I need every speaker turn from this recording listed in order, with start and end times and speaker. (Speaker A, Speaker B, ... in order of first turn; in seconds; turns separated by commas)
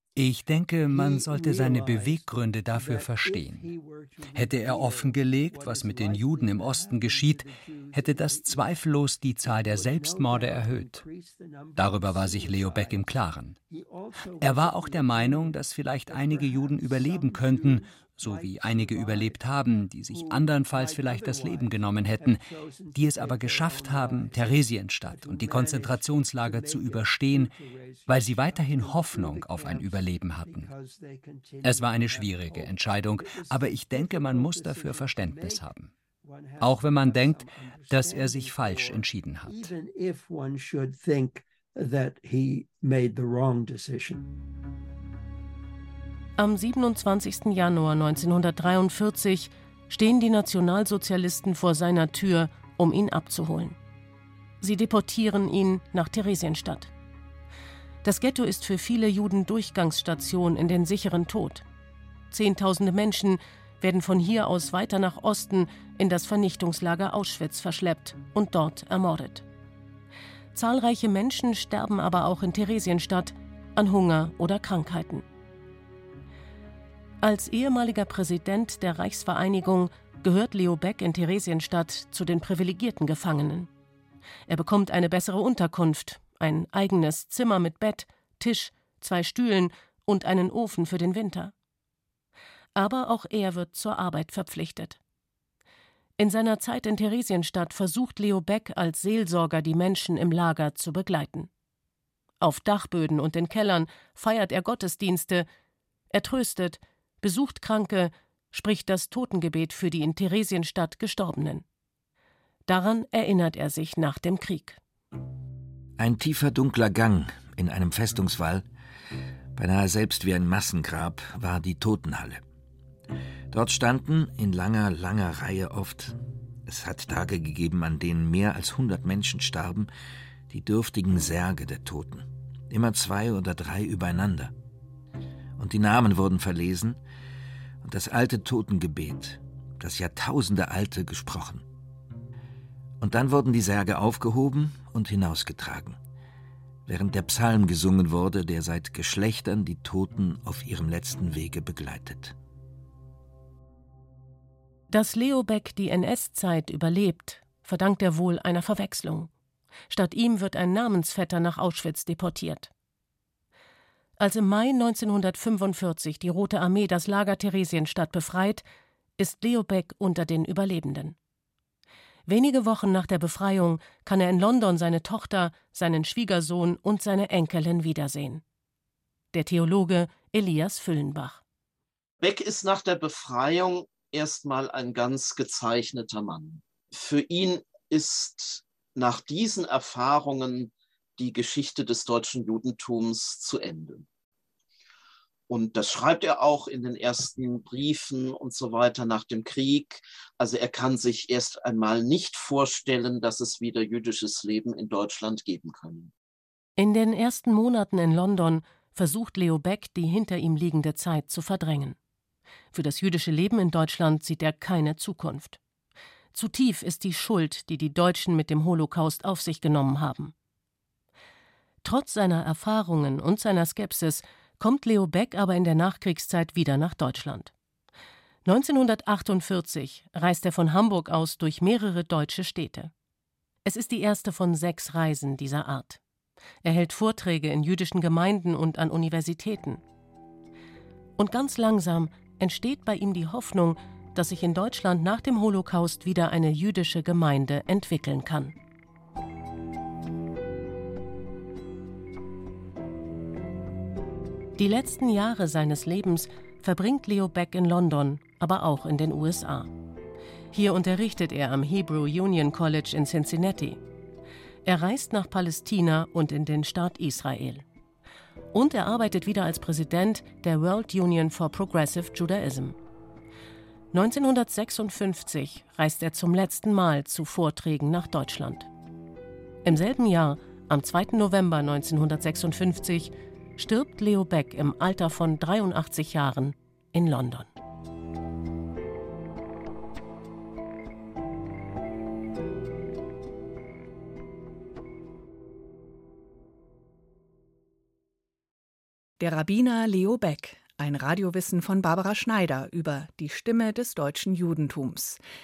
Speaker A: 0.2-3.7, Speaker B: 0.9-8.8, Speaker A: 4.3-7.4, Speaker A: 7.9-11.0, Speaker B: 9.4-19.4, Speaker A: 11.8-13.6, Speaker A: 14.4-22.4, Speaker B: 20.1-44.3, Speaker A: 22.9-27.5, Speaker A: 28.1-30.7, Speaker A: 31.6-35.9, Speaker A: 36.6-39.7, Speaker C: 46.4-53.8, Speaker C: 54.6-56.9, Speaker C: 58.0-61.6, Speaker C: 62.3-69.5, Speaker C: 70.5-75.2, Speaker C: 77.2-83.7, Speaker C: 84.5-91.5, Speaker C: 92.8-95.0, Speaker C: 96.2-101.5, Speaker C: 102.4-105.5, Speaker C: 106.1-111.6, Speaker C: 112.7-114.8, Speaker D: 116.0-118.7, Speaker D: 119.6-122.4, Speaker D: 123.5-129.9, Speaker D: 130.5-134.5, Speaker D: 135.6-137.0, Speaker D: 137.8-141.7, Speaker D: 143.0-146.0, Speaker D: 146.9-152.3, Speaker C: 154.9-159.3, Speaker C: 159.9-162.7, Speaker C: 164.2-168.6, Speaker C: 169.2-171.2, Speaker C: 172.3-178.4, Speaker C: 179.3-181.4, Speaker E: 182.2-194.1, Speaker E: 195.5-206.1, Speaker C: 206.8-212.0, Speaker C: 212.7-215.6, Speaker C: 216.3-220.3, Speaker C: 221.8-227.5, Speaker C: 228.4-232.9, Speaker C: 233.7-236.0, Speaker C: 236.6-239.8, Speaker C: 241.2-248.6, Speaker C: 254.6-259.7, Speaker C: 260.5-263.8, Speaker C: 264.6-267.6, Speaker C: 268.5-272.8, Speaker C: 273.9-278.7, Speaker C: 279.6-287.5, Speaker F: 299.2-305.2